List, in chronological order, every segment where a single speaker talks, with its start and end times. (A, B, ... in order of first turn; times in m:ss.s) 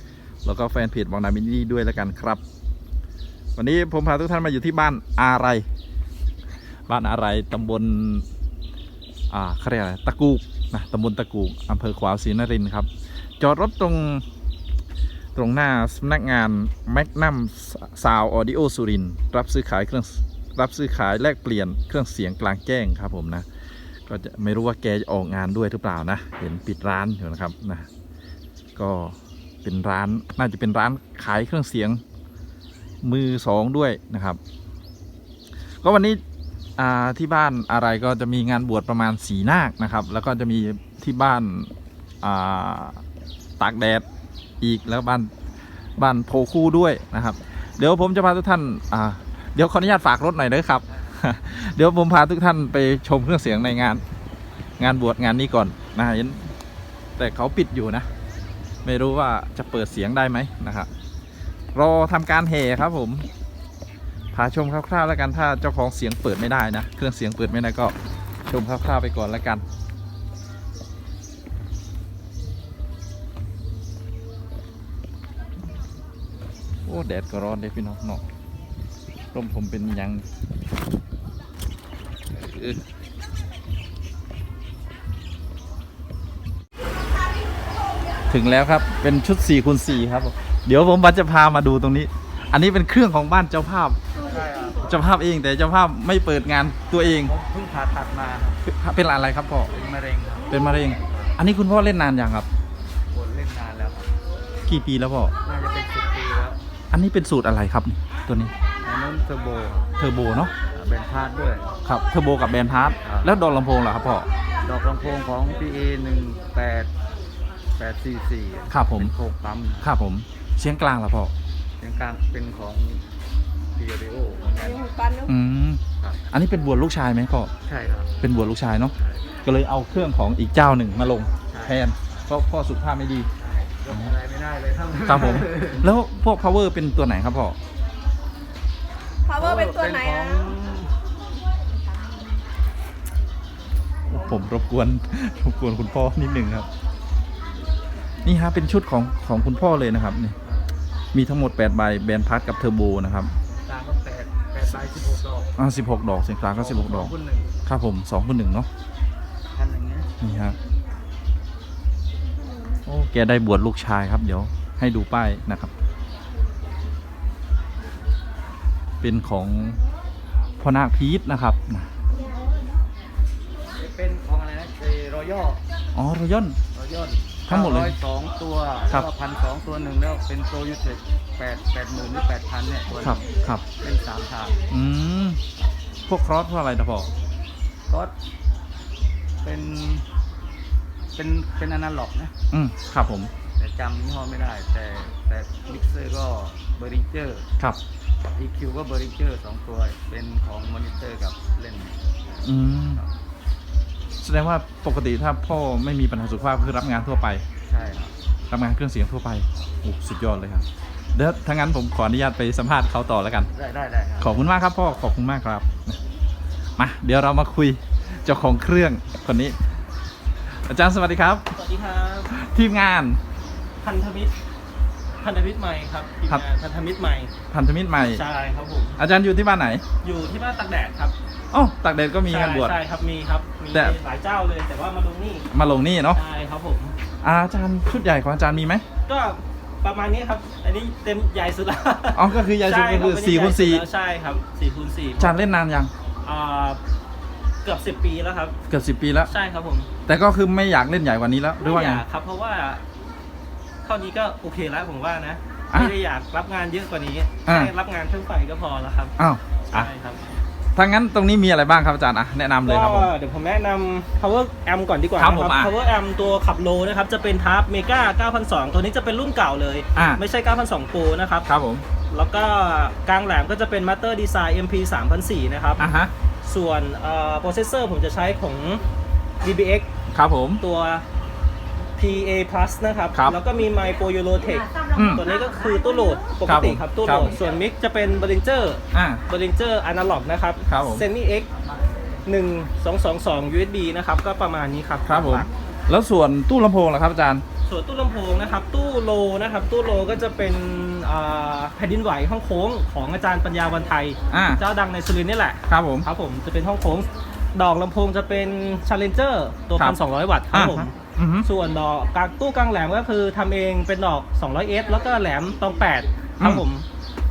0:00.4-0:02.4 A
0:03.6-0:05.6 A
0:06.9-0:08.2 A
0:09.3-0:12.9 A
0:13.4-0:14.2 A
0:15.4-0:23.5 A
0:24.1-0:27.9 A
0:28.8-0:32.0 A
0:33.0-0:34.4 A
0:35.8-0:36.2 A
0:36.8-0:41.7 A
0:42.2-0:43.0 A
0:43.6-0:44.0 A
0:44.6-0:45.3 A
0:46.0-0:54.0 A
0:54.8-0:56.4 A
0:57.2-0:58.1 A
0:58.8-1:00.9 A
1:01.7-1:03.3 A
1:04.3-1:08.0 A
1:08.5-1:09.6 A
1:16.9-1:18.2 A
1:19.3-1:20.2 A
1:22.3-1:22.8 A
1:28.3-1:34.0 A
1:34.2-1:34.9 B
1:34.8-1:37.3 A
1:37.0-1:38.6 B
1:38.7-1:39.7 A
1:39.7-1:41.3 B
1:40.5-1:42.5 A
1:43.1-1:44.1 B
1:44.7-1:45.3 A
1:45.4-1:46.6 B
1:46.9-1:48.5 A
1:48.8-1:49.9 B
1:50.0-1:50.5 A
1:50.7-1:51.7 B
1:51.8-1:54.3 A
1:53.0-1:53.3 B
1:54.6-1:56.9 B
1:57.8-1:59.9 B
1:58.7-1:59.1 A
1:59.8-2:01.3 A
2:01.8-2:03.0 B
2:03.8-2:04.9 B
2:04.6-2:05.3 C
2:05.2-2:07.5 A
2:07.7-2:08.1 B
2:08.2-2:13.3 A
2:11.5-2:11.8 B
2:13.4-2:15.9 B
2:13.9-2:14.1 A
2:15.1-2:17.6 A
2:19.3-2:20.9 B
2:19.3-2:20.5 C
2:24.1-2:26.7 A
2:28.2-2:30.4 A
2:31.1-2:33.3 A
2:33.7-2:35.5 B
2:35.6-2:37.1 A
2:36.5-2:37.5 B
2:37.7-2:38.7 A
2:39.5-2:40.1 B
2:40.2-2:40.6 A
2:42.9-2:45.7 A
2:49.0-2:49.8 A
2:50.6-2:51.9 A
2:53.8-2:55.6 B
2:56.0-2:56.6 A
2:56.7-3:03.3 B
2:57.5-2:58.0 A
3:03.0-3:03.6 A
3:03.8-3:04.6 B
3:04.7-3:05.4 A
3:06.1-3:07.1 A
3:09.4-3:10.0 B
3:11.2-3:12.3 B
3:12.5-3:13.3 A
3:13.6-3:17.5 B
3:18.4-3:22.0 B
3:22.4-3:23.0 A
3:24.2-3:27.4 A
3:27.7-3:28.1 B
3:28.5-3:33.5 A
3:33.5-3:34.4 B
3:34.2-3:36.0 A
3:36.8-3:39.6 A
3:40.7-3:41.4 A
3:41.5-3:42.3 D
3:42.3-3:43.2 A
3:43.8-3:44.3 D
3:45.2-3:47.3 D
3:47.5-3:48.2 A
3:48.1-3:49.0 D
3:49.0-3:49.8 A
3:50.0-3:51.2 D
3:51.5-3:52.8 A
3:52.3-3:55.5 D
3:55.5-3:56.2 A
3:56.1-3:56.9 D
3:57.2-3:58.8 A
3:59.1-4:05.4 D
4:02.1-4:03.8 A
4:05.2-4:05.9 A
4:06.2-4:06.8 D
4:07.6-4:08.6 D
4:08.7-4:09.3 A
4:09.3-4:09.9 D
4:10.1-4:12.0 A
4:11.6-4:12.8 D
4:13.8-4:19.2 D
4:17.5-4:17.7 A
4:19.2-4:19.9 A
4:19.7-4:20.2 D
4:20.8-4:23.1 A
4:22.6-4:31.5 D
4:25.2-4:25.7 A
4:30.0-4:30.2 A
4:31.5-4:31.8 A
4:32.1-4:35.9 D
4:35.8-4:36.1 A
4:36.4-4:38.8 D
4:39.4-4:39.9 D
4:40.1-4:40.6 A
4:40.6-4:41.0 D
4:42.0-4:51.5 D
4:45.0-4:45.2 A
4:46.5-4:47.4 A
4:48.9-4:49.2 A
4:50.7-4:51.0 A
4:52.2-4:55.5 D
4:55.1-4:57.4 A
4:57.7-5:16.8 D
5:04.3-5:04.6 A
5:05.7-5:06.1 A
5:10.5-5:11.5 A